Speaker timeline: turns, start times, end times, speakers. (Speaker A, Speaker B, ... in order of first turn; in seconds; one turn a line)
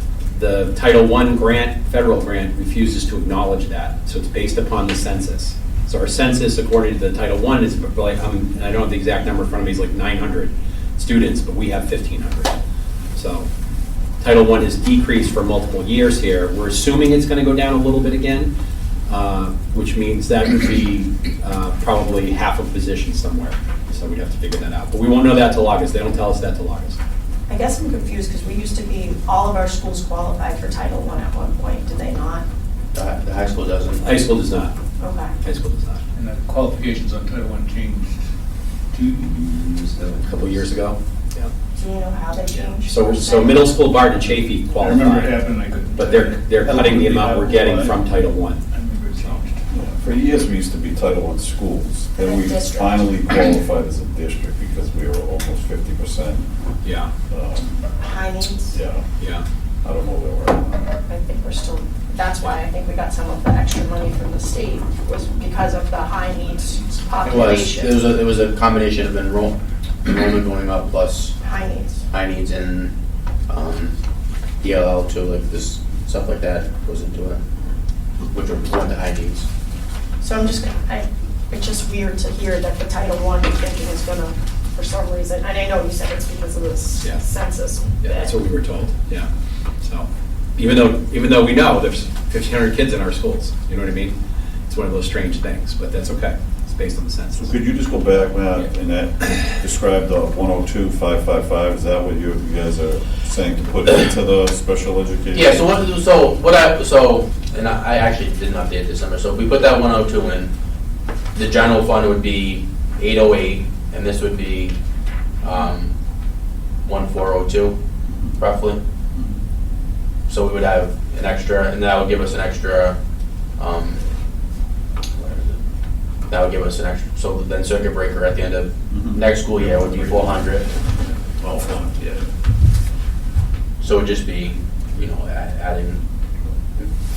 Speaker A: 0.3-12.6
Speaker A: 13.2-13.5
Speaker A: 14.2-18.5
Speaker A: 19.1-27.0
Speaker B: 27.5-32.5
Speaker C: 32.9-34.0
Speaker A: 34.0-34.7
Speaker B: 35.0-35.4
Speaker A: 35.4-36.0
Speaker D: 36.1-38.1
Speaker D: 38.9-40.8
Speaker A: 40.2-41.5
Speaker B: 41.8-43.7
Speaker A: 42.8-45.4
Speaker D: 44.7-48.0
Speaker A: 46.0-48.6
Speaker D: 48.7-49.6
Speaker B: 49.7-50.0
Speaker E: 49.8-56.5
Speaker B: 52.2-53.1
Speaker A: 56.8-57.1
Speaker E: 57.3-57.8
Speaker B: 58.0-58.8
Speaker E: 58.7-59.0
Speaker A: 59.2-59.5
Speaker E: 59.8-60.9
Speaker B: 61.1-68.0
Speaker D: 67.2-67.6
Speaker C: 67.2-71.3
Speaker B: 71.4-72.0
Speaker C: 72.1-72.9
Speaker C: 73.5-73.9
Speaker C: 74.6-77.4
Speaker C: 78.3-79.5
Speaker B: 80.2-88.3
Speaker A: 88.0-89.3
Speaker A: 89.8-94.2
Speaker A: 94.7-97.6
Speaker E: 97.4-105.7
Speaker C: 105.3-110.5
Speaker C: 111.3-114.8
Speaker C: 115.4-115.9
Speaker C: 116.9-117.8
Speaker C: 118.4-118.8
Speaker C: 120.3-123.0
Speaker C: 123.6-124.0
Speaker C: 125.2-125.5
Speaker C: 126.3-130.7
Speaker E: 128.9-129.2
Speaker E: 131.4-132.2
Speaker C: 133.8-136.0